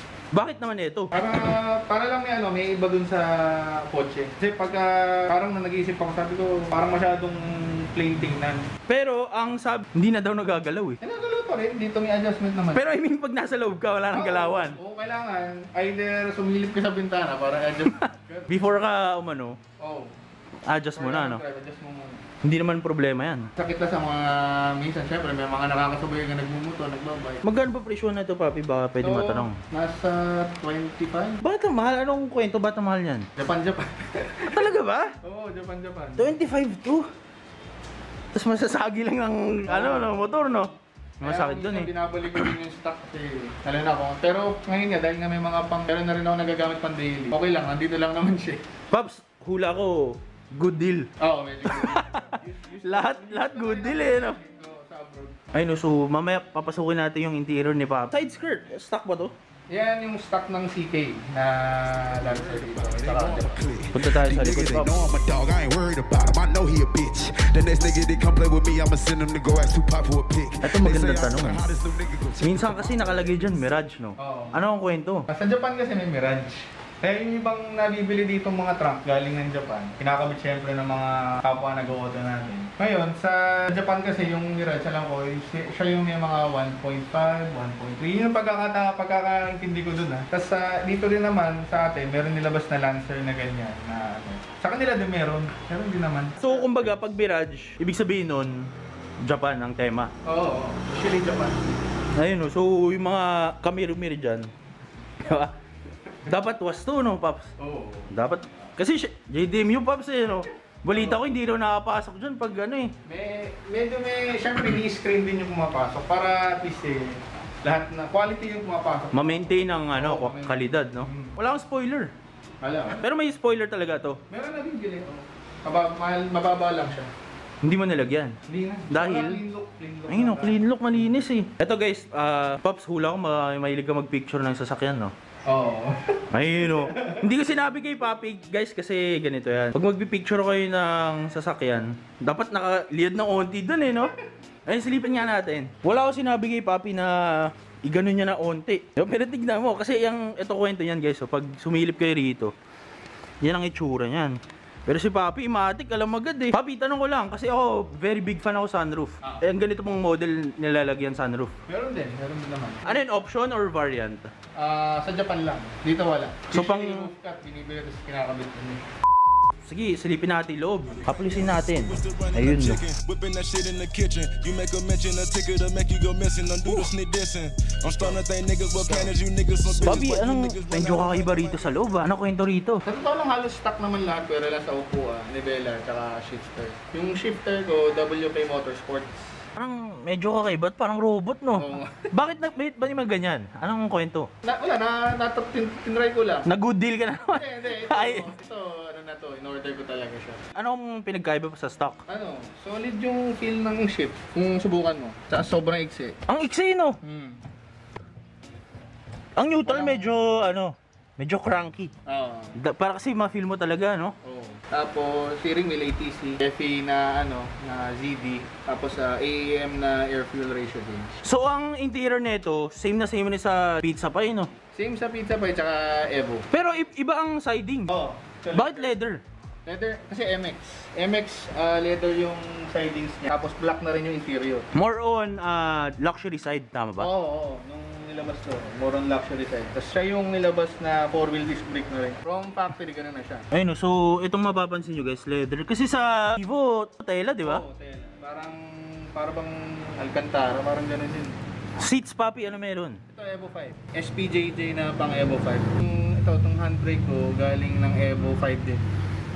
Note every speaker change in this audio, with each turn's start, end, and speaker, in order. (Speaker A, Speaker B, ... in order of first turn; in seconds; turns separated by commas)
Speaker A: 0.3-1.1, Speaker B: 1.1-8.7, Speaker A: 8.9-11.0, Speaker B: 11.0-12.8, Speaker A: 12.8-14.8, Speaker B: 14.1-18.5, Speaker A: 17.9-19.6, Speaker B: 19.8-20.1, Speaker A: 20.7-21.4, Speaker B: 21.0-22.3, Speaker A: 22.4-23.5, Speaker B: 23.6-27.4, Speaker A: 27.4-29.6, Speaker B: 29.0-31.4, Speaker A: 31.4-33.3, Speaker B: 33.4-34.6, Speaker A: 34.5-35.1, Speaker B: 35.2-36.3, Speaker A: 36.2-37.1, Speaker A: 38.3-40.7, Speaker B: 39.7-40.5, Speaker A: 41.2-42.5, Speaker B: 41.2-48.6, Speaker A: 48.9-51.1, Speaker B: 51.2-55.4, Speaker A: 51.6-54.4, Speaker A: 55.5-59.3, Speaker B: 59.7-63.6, Speaker C: 62.0-73.8, Speaker A: 63.9-64.9, Speaker A: 70.6-71.6, Speaker A: 72.4-75.2, Speaker B: 74.2-74.6, Speaker B: 75.3-97.1, Speaker A: 96.4-98.7, Speaker A: 99.2-100.1, Speaker B: 100.3-101.7, Speaker A: 102.2-104.5, Speaker A: 105.2-105.5, Speaker A: 106.3-107.5, Speaker B: 107.6-108.1, Speaker A: 108.1-112.9, Speaker B: 110.9-111.2, Speaker B: 113.1-121.3, Speaker A: 119.1-122.1, Speaker B: 122.6-123.0, Speaker A: 123.0-124.2, Speaker B: 124.3-127.1, Speaker A: 127.6-128.4, Speaker B: 128.5-130.6, Speaker A: 128.9-129.4, Speaker A: 130.1-135.1, Speaker B: 135.5-137.2, Speaker A: 136.3-144.1, Speaker A: 144.7-152.5, Speaker A: 153.4-161.6, Speaker B: 161.7-163.0, Speaker A: 162.8-164.3, Speaker B: 164.6-168.8, Speaker A: 166.5-167.1, Speaker A: 169.7-172.8, Speaker D: 171.1-182.1, Speaker A: 179.8-182.8, Speaker B: 182.8-189.3, Speaker A: 189.6-194.3, Speaker B: 191.6-192.1, Speaker B: 194.4-196.5, Speaker A: 196.5-198.3, Speaker B: 197.3-200.4, Speaker A: 200.6-202.0, Speaker B: 202.1-206.2, Speaker A: 206.3-207.0, Speaker B: 207.0-207.4, Speaker A: 209.4-211.9, Speaker B: 209.7-210.1, Speaker B: 212.1-212.6, Speaker A: 212.6-214.2, Speaker B: 214.2-221.2, Speaker A: 221.2-224.5, Speaker B: 224.7-226.5, Speaker A: 226.5-227.9, Speaker B: 227.9-228.9, Speaker A: 228.5-229.2, Speaker B: 229.7-234.7, Speaker A: 234.7-237.1, Speaker B: 237.0-243.4, Speaker A: 243.5-247.6, Speaker B: 247.4-251.4, Speaker A: 251.8-253.0, Speaker B: 253.1-258.8